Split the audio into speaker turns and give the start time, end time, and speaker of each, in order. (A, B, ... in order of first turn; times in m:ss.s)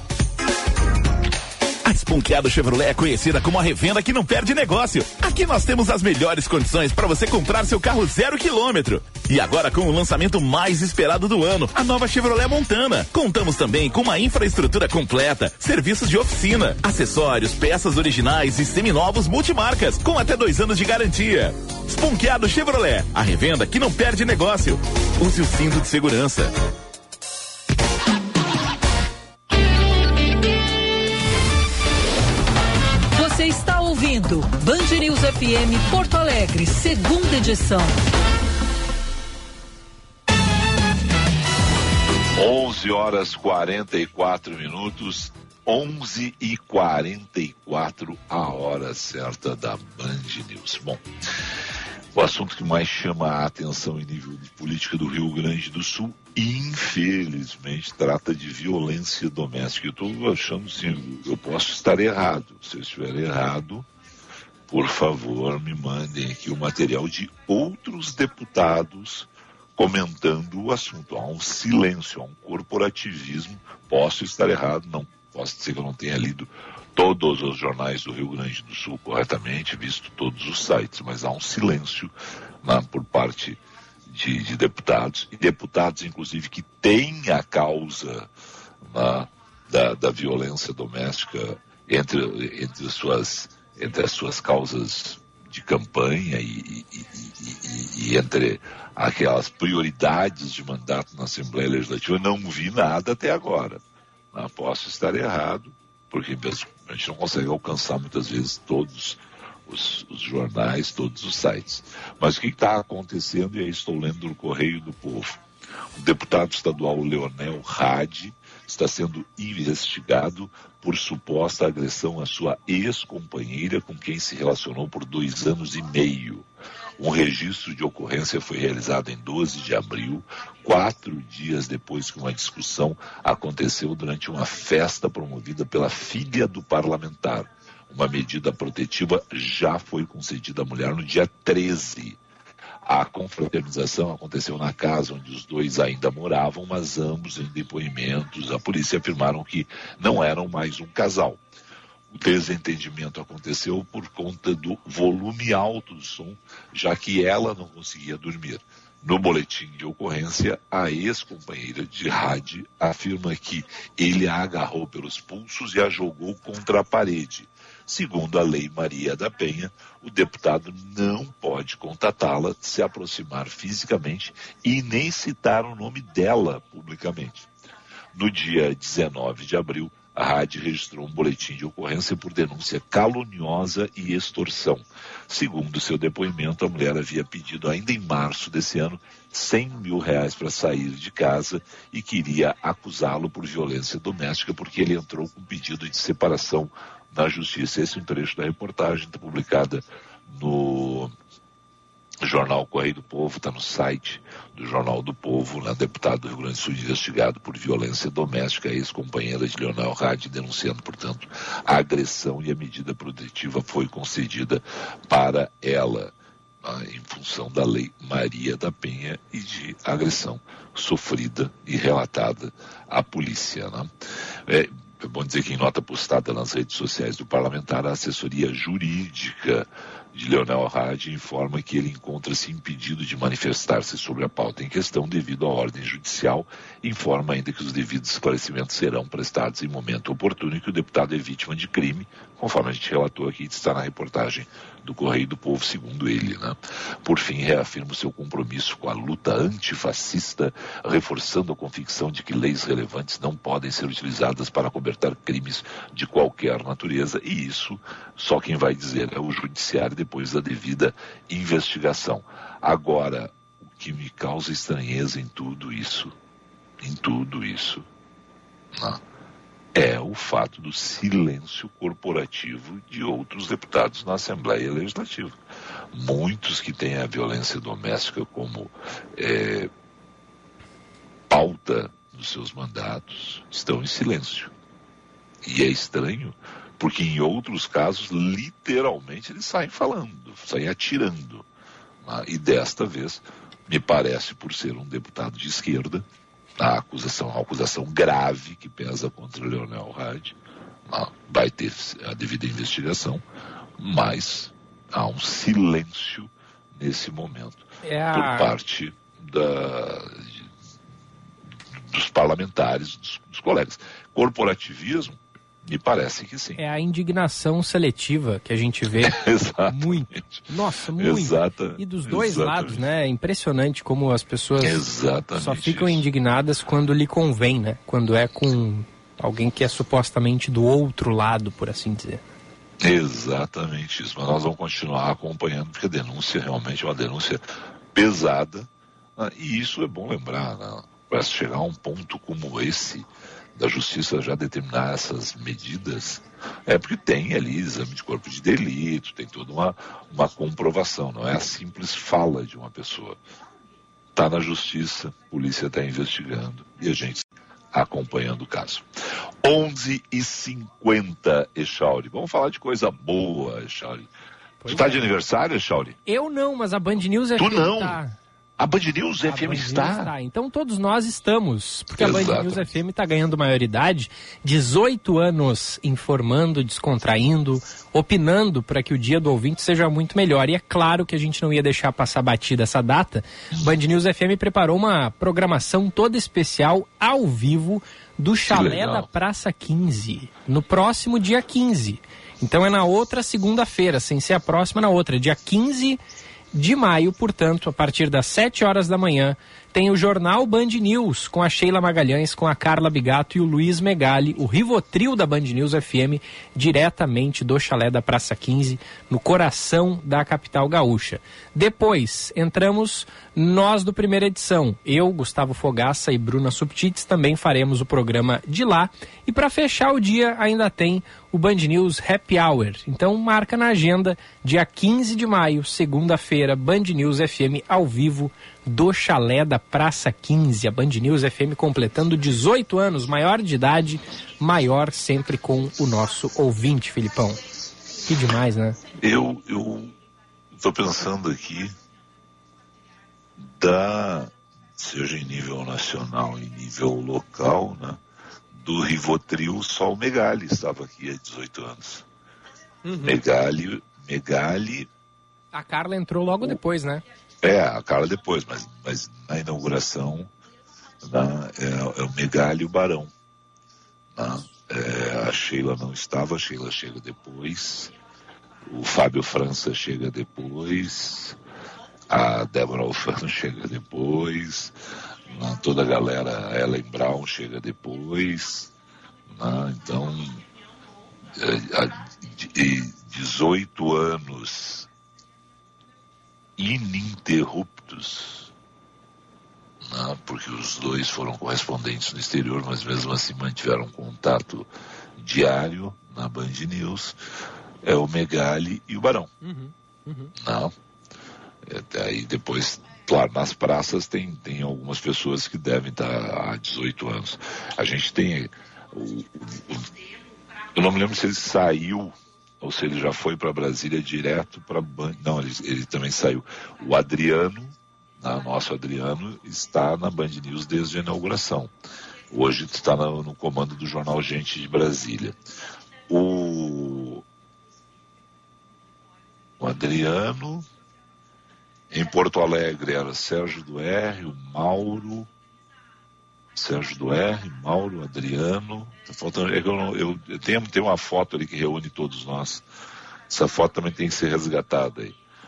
0:01.8-0:26.5 A
0:33.2-0:38.0 B
0:42.4-0:51.0 C
0:52.1-1:03.9 C
1:04.7-1:28.3 C
1:28.8-1:43.8 C
1:44.3-1:55.4 C
1:56.0-2:06.5 C
2:07.0-2:22.2 C
2:22.8-2:31.4 C
2:32.1-2:57.5 C
2:58.1-3:21.1 C
3:22.2-3:43.9 C
3:44.5-4:26.1 C
4:26.8-4:27.9 C
4:28.8-4:29.0 C
4:29.7-4:35.4 C
4:35.9-4:39.7 C
4:41.3-4:44.5 C
4:45.4-4:51.5 C
4:52.0-4:56.0 C
4:56.6-5:00.4 C
5:00.9-5:03.2 C
5:03.8-5:10.5 C
5:07.8-5:08.5 D
5:11.8-5:16.6 C
5:16.6-5:24.8 D
5:19.0-5:20.4 C
5:21.0-5:22.8 C
5:24.6-5:26.0 C
5:25.4-5:32.2 D
5:32.8-5:37.4 C
5:37.9-5:53.2 C
5:54.1-5:58.9 C
5:59.4-6:04.1 C
6:04.6-6:05.1 D
6:04.7-6:06.0 C
6:06.1-6:08.2 D
6:07.4-6:08.0 C
6:08.6-6:10.1 C
6:09.2-6:36.0 D
6:12.0-6:12.7 C
6:28.5-6:29.1 C
6:36.5-7:17.4 D
7:18.0-7:18.8 D
7:19.0-7:20.0 C
7:20.5-7:21.8 C
7:23.4-7:28.0 C
7:28.6-7:32.1 C
7:32.9-7:33.2 D
7:33.0-7:34.9 C
7:35.5-7:37.0 D
7:37.4-7:40.3 C
7:41.0-7:43.1 C
7:44.2-7:48.0 C
7:48.7-7:51.4 C
7:52.1-7:54.8 C
7:55.3-7:58.7 C
7:59.3-8:00.4 C
8:01.3-8:04.9 C
8:06.6-8:08.5 C
8:09.8-8:17.2 C
8:17.8-8:19.3 C
8:19.4-8:20.3 D
8:20.4-8:20.7 C
8:21.6-8:29.9 C
8:30.7-8:41.7 C
8:42.3-8:45.4 C
8:46.1-8:47.2 C
8:49.6-8:50.7 C
8:51.9-8:55.3 C
8:56.5-9:02.6 C
9:03.3-9:05.2 C